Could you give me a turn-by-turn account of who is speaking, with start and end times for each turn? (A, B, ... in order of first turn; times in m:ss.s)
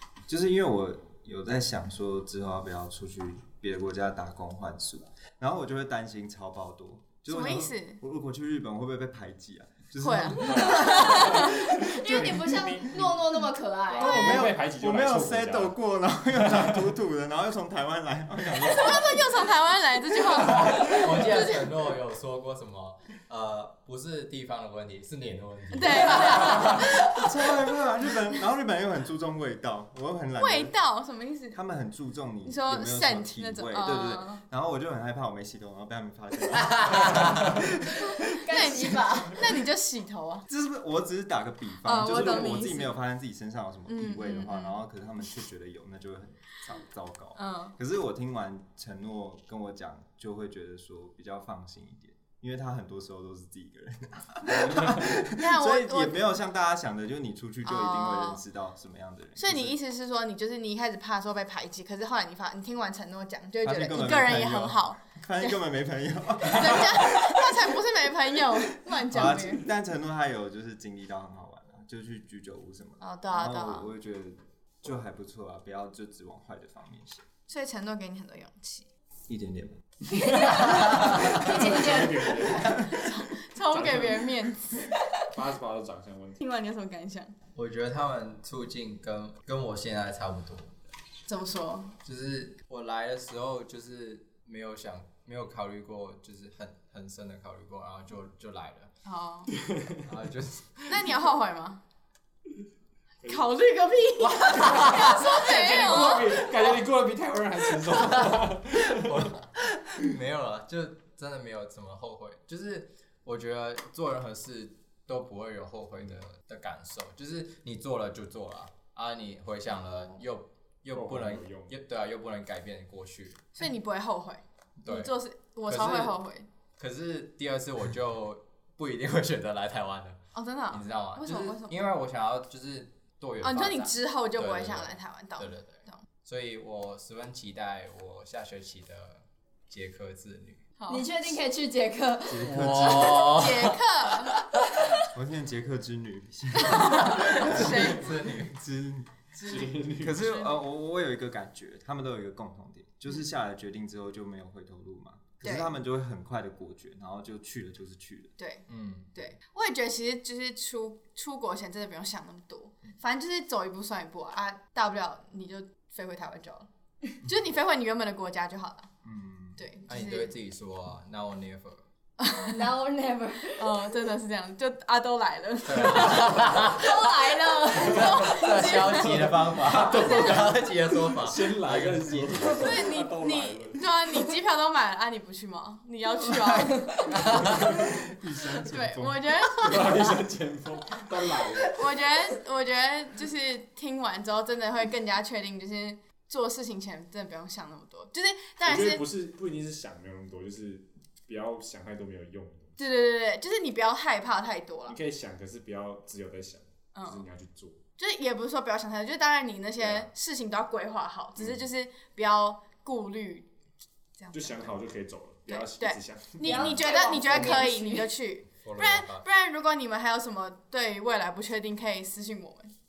0:00.3-0:11.5 A
0:07.3-0:08.0 B
0:10.0-0:12.1 B
0:10.5-0:15.8 C
0:10.9-0:14.4 D
0:13.9-0:19.4 A
0:16.4-0:16.8 C
0:18.6-0:21.7 B
0:20.5-0:26.8 E
0:25.7-0:27.3 B
0:26.9-0:30.7 A
0:30.4-0:31.6 B
0:31.5-0:38.7 A
0:32.4-0:34.4 B
0:37.9-0:39.4 D
0:38.5-0:40.4 B
0:40.5-0:59.8 A
0:41.8-0:42.9 B
0:43.9-0:44.8 B
0:47.3-0:47.7 B
0:54.5-0:55.1 C
0:55.3-0:56.2 B
0:57.6-0:58.4 B
0:59.4-1:05.0 B
1:03.6-1:07.6 A
1:06.5-1:09.7 B
1:08.9-1:17.3 A
1:13.0-1:13.9 B
1:17.5-1:18.9 B
1:19.3-1:19.8 A
1:20.1-1:22.3 D
1:20.3-1:25.0 B
1:20.5-1:22.9 C
1:20.7-1:21.1 E
1:23.7-1:26.4 C
1:26.4-1:27.3 B
1:27.5-1:30.8 E
1:31.3-1:31.9 B
1:32.0-1:38.9 E
1:39.0-1:39.5 B
1:39.6-1:40.0 C
1:40.0-1:40.9 E
1:40.9-1:41.8 B
1:43.2-1:46.5 B
1:44.2-1:49.3 C
1:44.3-1:46.3 E
1:48.9-1:49.4 E
1:49.9-2:03.6 E
1:59.8-2:00.1 B
2:00.9-2:01.8 C
2:03.6-2:06.5 B
2:04.8-2:05.1 E
2:05.7-2:06.2 E
2:06.8-2:20.6 E
2:10.3-2:11.8 B
2:13.4-2:16.0 B
2:20.8-2:21.1 B
2:20.9-2:22.6 D
2:22.2-2:23.4 A
2:22.4-2:23.8 E
2:22.9-2:24.4 B
2:25.0-2:38.3 A
2:26.5-2:28.2 B
2:27.2-2:28.6 E
2:29.4-2:30.5 B
2:29.4-2:30.2 C
2:35.4-2:35.7 B
2:38.4-2:46.7 B
2:38.7-2:39.1 E
2:47.2-2:48.9 B
2:49.0-2:49.6 A
2:49.6-2:50.3 B
2:49.9-2:51.8 E
2:52.2-2:52.7 B
2:52.4-2:53.9 D
2:53.5-3:00.6 B
2:55.6-2:56.8 E
2:56.6-2:58.2 D
2:57.8-3:02.8 E
2:59.2-3:03.8 C
3:02.6-3:07.4 B
3:07.1-3:07.5 E
3:07.6-3:09.3 A
3:08.7-3:10.1 B
3:09.6-3:11.8 C
3:11.7-3:19.0 B
3:18.6-3:22.8 C
3:22.8-3:25.0 B
3:24.9-3:27.8 C
3:26.9-3:27.2 B
3:28.0-3:33.5 B
3:29.8-3:30.1 C
3:31.4-3:31.6 C
3:34.2-3:34.7 B
3:34.3-3:36.9 C
3:35.5-3:42.7 B
3:36.4-3:38.1 D
3:38.6-3:39.3 E